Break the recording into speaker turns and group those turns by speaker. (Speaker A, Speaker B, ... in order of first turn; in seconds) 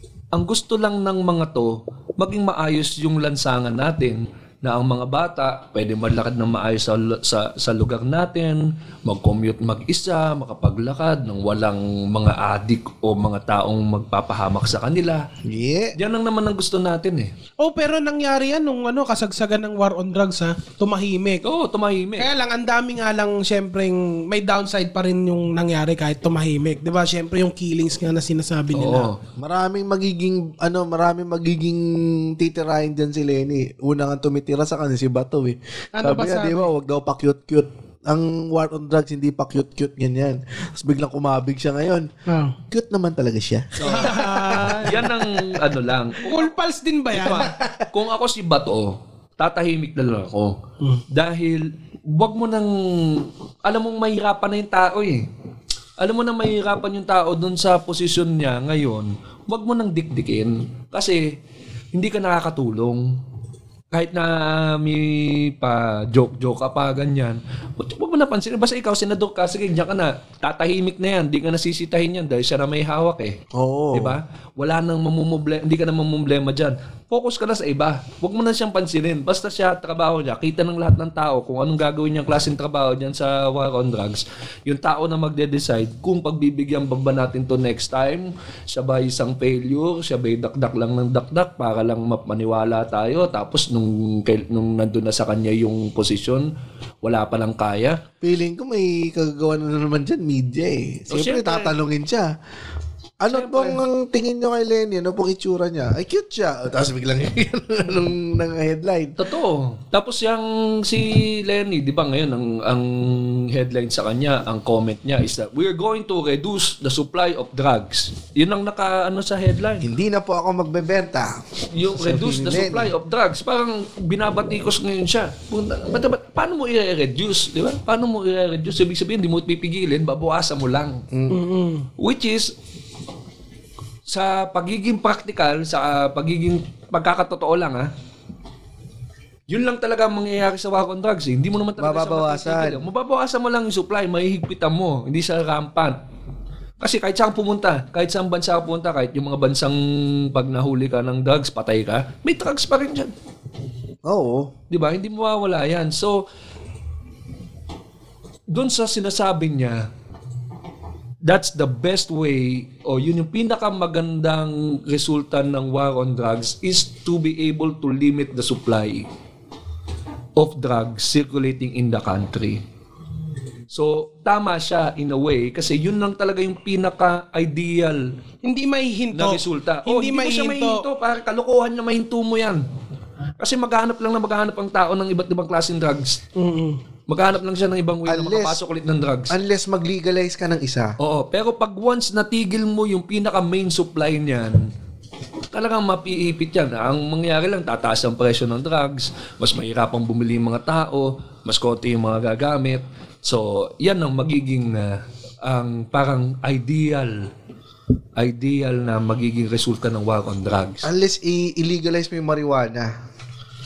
Speaker A: 0.3-15.2, 16.0-17.3, 21.4-22.3, 28.7-29.2, 43.8-44.2, 44.8-46.5, 47.1-50.6, 51.1-55.3, 56.0-61.4, 61.9-63.2, 63.9-73.4, 73.9-96.5, 97.0-98.0, 101.1-101.7, 103.3-103.8, 109.2-119.9, 121.7-131.0, 132.0-132.5, 134.1-137.9, 139.5-146.0, 146.8-153.1, 154.7-156.2, 158.5-159.9, 161.2-169.1, 170.3-172.6, 173.7-178.1, 179.1-182.6, 183.4-186.2, 187.1-189.4, 191.0-194.6, 195.5-207.3, 208.2-210.9
Speaker B: 15.4-15.9, 29.4-42.1, 42.7-45.1, 47.4-47.9, 73.5-74.2, 98.2-102.3, 103.2-109.2, 119.8-122.9, 131.1-131.4, 141.8-142.8, 154.0-154.5, 188.1-188.6, 189.3-190.9, 210.8-212.9
Speaker C: 17.6-21.4, 22.2-29.1, 36.0-36.7, 42.3-42.5, 43.9-45.1, 46.2-47.5, 131.3-131.9, 178.4-180.8, 186.3-186.8